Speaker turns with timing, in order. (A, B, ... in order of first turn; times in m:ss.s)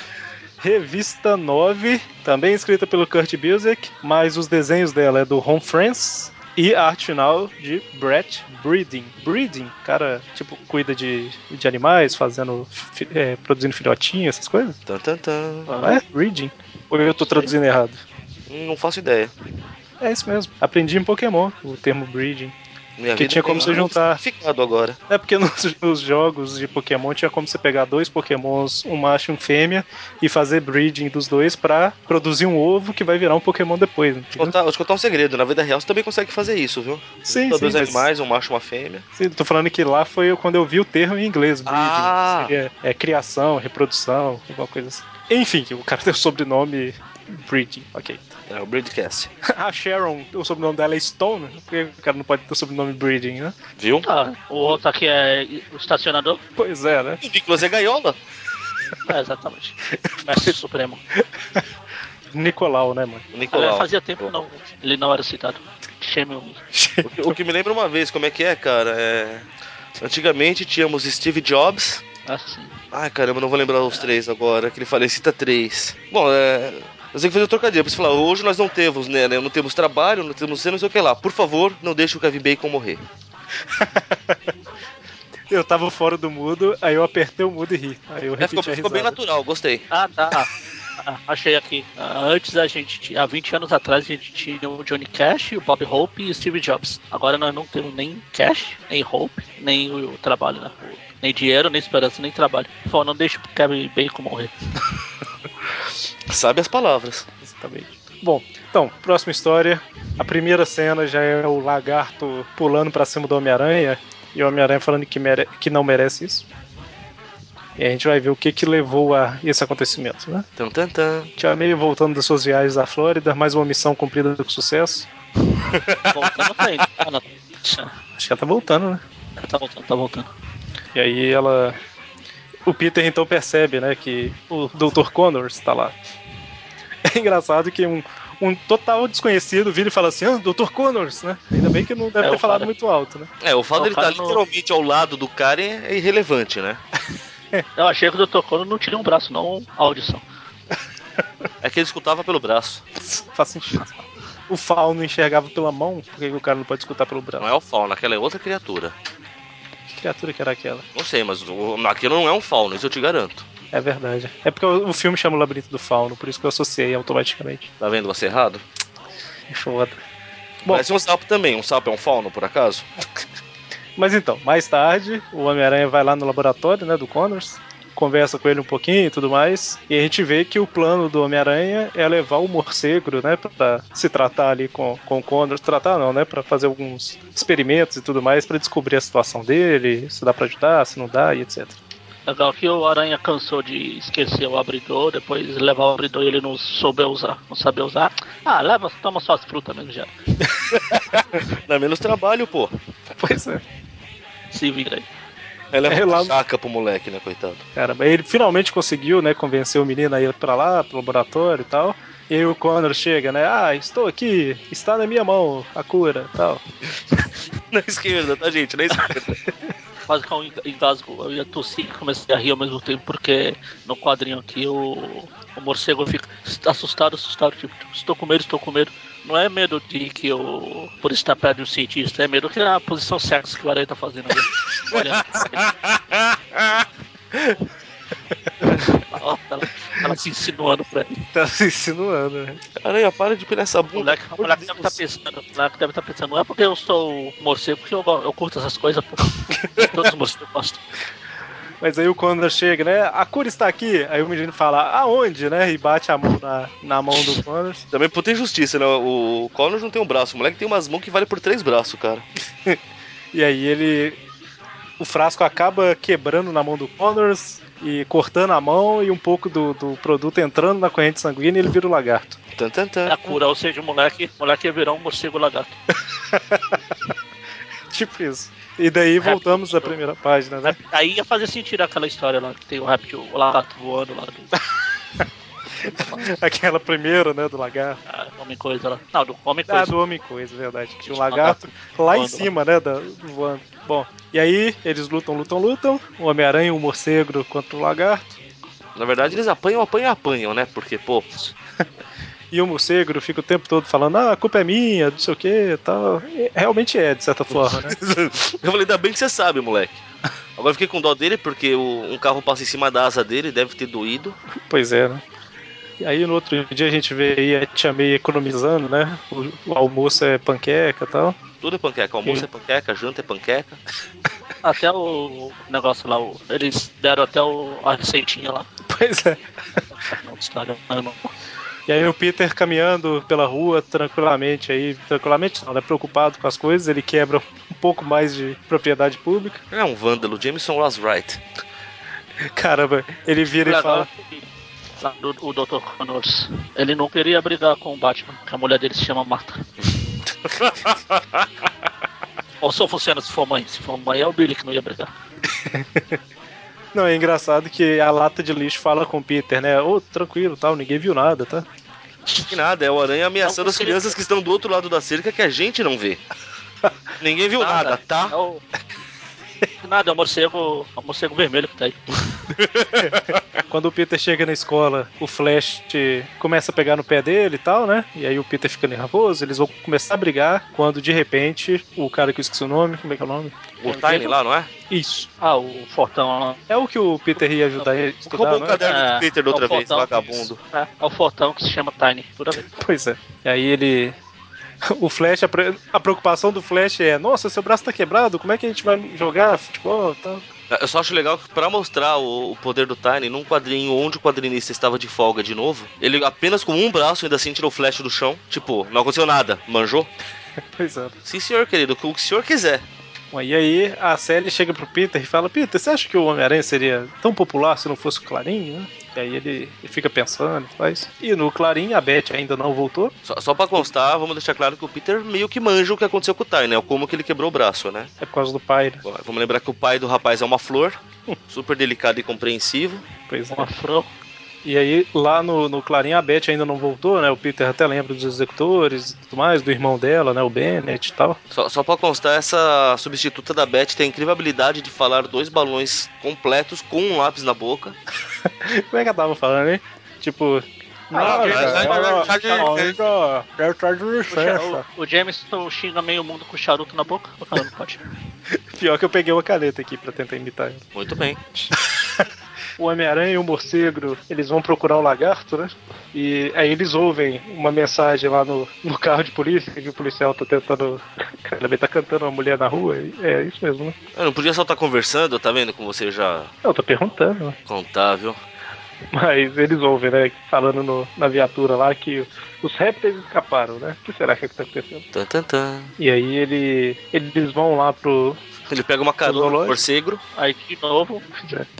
0:00.6-0:14.8 A
0:14.9-0:15.7 B
0:15.7-0:16.0 C
0:15.8-0:18.0 A
0:17.2-0:17.5 C
0:18.5-0:19.3 B
0:20.0-0:22.5 A
0:23.0-0:25.0 B
0:23.1-0:24.2 A
0:25.1-0:34.5 A
0:34.4-0:39.0 B
0:37.3-0:38.1 A
0:39.1-0:48.4 A
0:41.6-0:42.5 B
0:48.5-0:49.3 B
0:49.5-0:53.5 A
0:53.8-0:54.1 B
0:54.0-0:56.4 C
0:56.6-0:57.2 A
0:57.2-0:58.2 B
0:59.0-1:01.0 C
1:00.1-1:00.4 A
1:02.3-1:03.2 A
1:03.3-1:04.4 B
1:03.5-1:06.6 C
1:06.7-1:07.4 A
1:07.0-1:09.5 B
1:10.0-1:12.0 B
1:12.3-1:12.8 C
1:12.9-1:23.0 B
1:23.7-1:24.4 A
1:25.5-1:29.2 A
1:28.4-1:29.8 B
1:29.9-1:30.5 C
1:31.0-1:44.5 C
1:46.3-1:47.3 B
1:47.4-1:56.4 A
1:57.8-2:00.4 A
2:00.6-2:01.3 B
2:01.4-2:05.1 A
2:05.7-2:06.5 B
2:06.1-2:07.9 C
2:08.2-2:09.0 A
2:09.4-2:10.3 C
2:10.9-2:11.8 A
2:12.7-2:16.0 A
2:17.0-2:23.3 A
2:22.2-2:22.7 C
2:23.4-2:26.8 B
2:23.8-2:24.4 C
2:27.8-2:30.2 C
2:31.6-2:32.8 B
2:33.0-2:37.5 A
2:37.4-2:38.9 B
2:39.9-2:40.8 A
2:40.9-2:43.4 B
2:43.7-2:47.7 A
2:47.8-2:48.6 B
2:49.5-2:50.0 A
2:50.6-2:52.9 B
2:54.0-3:11.8 A
3:12.3-3:20.1 C
3:20.7-3:22.7 B
3:23.2-3:23.6 A
3:24.5-3:25.0 C
3:25.7-3:27.6 B
3:25.9-3:26.3 A
3:27.7-3:36.6 A
3:37.7-3:39.4 B
3:40.1-3:55.7 C
3:54.9-3:57.6 B
3:59.0-4:01.2 C
4:01.3-4:02.6 A
4:02.8-4:05.0 B
4:03.9-4:10.8 C
4:11.8-4:17.8 A
4:17.9-4:22.3 B
4:23.3-4:24.2 A
4:25.0-4:32.4 A
4:32.5-4:33.1 B
4:33.1-4:35.8 C
4:36.3-4:36.8 A
4:37.9-4:40.8 A
4:39.2-4:39.9 C
4:40.6-4:44.5 C
4:45.8-4:46.3 C
4:46.2-4:48.0 A
4:48.1-4:49.9 C
4:49.7-4:58.4 A
4:51.1-4:52.5 C
4:58.9-5:01.3 B
5:02.5-5:08.0 A
5:07.5-5:10.0 B
5:10.6-5:14.4 B
5:14.7-5:15.2 A
5:16.0-5:21.4 A
5:21.6-5:23.8 B
5:24.6-5:28.7 C
5:28.9-5:29.4 A
5:29.9-5:31.3 C
5:31.9-5:39.6 A
5:39.7-5:41.4 B
5:42.5-5:44.1 A
5:43.6-5:44.5 C
5:45.0-5:49.6 C
5:50.6-5:51.0 B
5:52.6-5:55.1 C
5:55.6-5:56.2 A
5:56.9-6:01.6 A
6:02.3-6:02.5 C
6:02.5-6:06.2 B
6:03.4-6:04.1 C
6:07.2-6:08.3 B
6:07.6-6:08.6 C
6:09.8-6:12.1 C
6:12.6-6:13.4 B
6:13.7-6:23.5 A
6:23.8-6:24.7 B
6:23.8-6:24.3 C
6:24.9-6:25.3 A
6:25.4-6:26.6 C
6:26.7-6:28.8 A
6:28.2-6:30.6 B
6:28.8-6:32.6 C
6:32.7-6:34.2 A
6:34.9-6:40.4 A
6:40.7-6:50.1 B
6:50.8-6:51.1 A
6:51.2-6:52.8 B
6:53.3-7:03.1 A
7:03.2-7:08.1 B
7:08.2-7:09.0 A
7:09.0-7:11.0 B
7:11.5-7:13.0 B
7:13.3-7:13.7 A
7:13.5-7:14.1 C
7:14.6-7:21.4 A
7:21.5-7:28.0 B
7:28.6-7:34.8 A
7:31.1-7:33.1 C
7:31.1-7:33.0 B
7:34.3-7:38.0 C
7:38.7-7:40.8 A
7:40.9-7:41.4 B
7:42.8-7:53.9 A
7:54.1-7:56.5 B
7:56.6-7:57.6 A
7:57.7-7:58.4 B
7:59.1-8:05.0 A
8:05.1-8:05.9 B
8:06.0-8:08.4 A
8:08.7-8:10.2 B
8:09.2-8:09.8 A
8:10.3-8:11.2 C
8:11.4-8:11.7 A